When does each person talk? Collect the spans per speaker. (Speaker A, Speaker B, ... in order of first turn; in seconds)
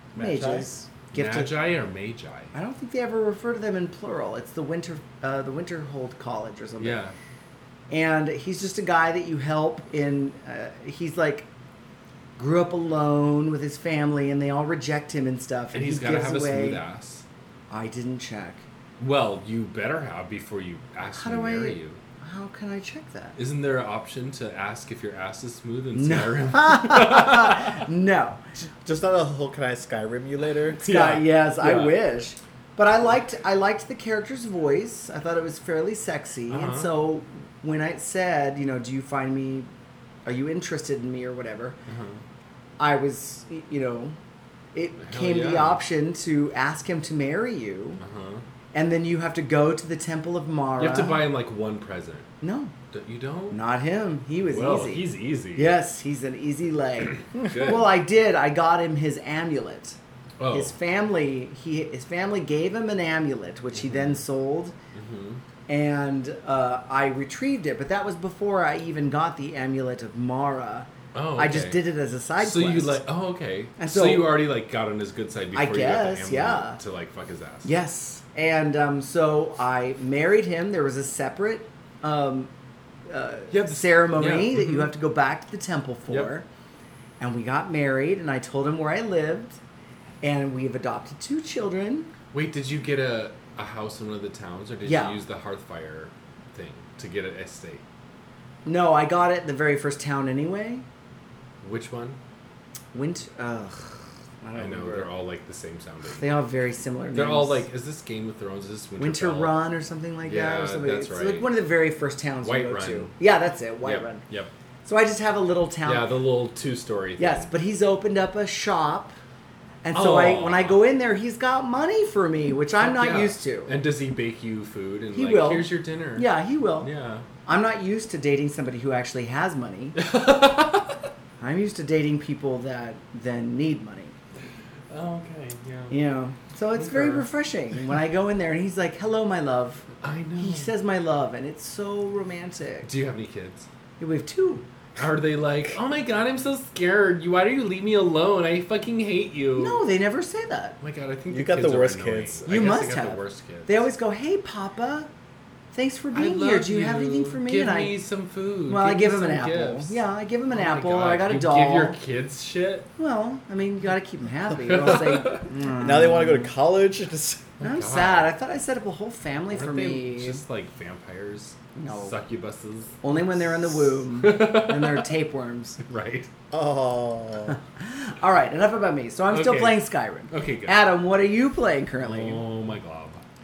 Speaker A: 0.1-1.6, 2.5-7.0, 7.9-11.5, 12.4-16.8, 17.7-18.6, 21.1-23.4, 25.9-28.4, 30.8-39.7, 40.3-41.8, 42.8-44.2, 44.7-48.0, 48.7-51.2, 52.4-52.7, 53.5-60.0, 60.5-64.8, 65.7-73.0, 73.8-74.4, 75.5-76.8, 77.7-82.5, 83.1-86.5, 87.2-89.6, 90.2-92.1, 94.8-95.2, 98.7-100.8, 102.9-105.1, 106.1-107.6, 109.0-114.2, 114.8-116.1, 117.2-119.2, 119.8-123.7, 125.1-126.9, 127.5-130.0, 131.4-134.2, 135.9-142.9, 144.0-144.7, 149.6-150.8, 152.5-155.1, 155.7-158.0, 158.7-162.0, 163.0-166.5, 167.6-170.4, 171.8-172.2, 173.0-175.8, 177.5-182.4
Speaker B: 0.1-2.5, 6.8-7.2, 15.7-17.2, 19.0-22.0, 23.4-27.9, 30.8-32.0, 36.5-36.9, 41.9-42.2, 45.0-45.8, 48.0-48.4, 50.8-52.3, 52.9-53.6, 54.5-55.8, 57.4-57.9, 60.4-60.8, 63.8-64.2, 64.9-65.4, 71.1-71.8, 72.4-77.7, 83.5-84.9, 92.3-97.8, 101.6-102.2, 104.5-106.3, 107.1-109.6, 110.2-111.5, 112.4-113.2, 113.8-114.5, 115.8-117.5, 119.9-120.8, 122.8-126.3, 126.8-127.3, 130.0-131.0, 134.9-136.0, 136.7-137.3, 140.0-140.7, 142.8-143.7, 145.0-149.8, 150.8-153.9, 156.1-162.9, 164.7-165.5, 167.6-168.3, 169.5-175.1, 175.8-176.3, 179.3-180.8, 182.0-183.2
Speaker C: 28.8-30.9, 151.3-152.4, 165.7-167.5, 176.5-177.6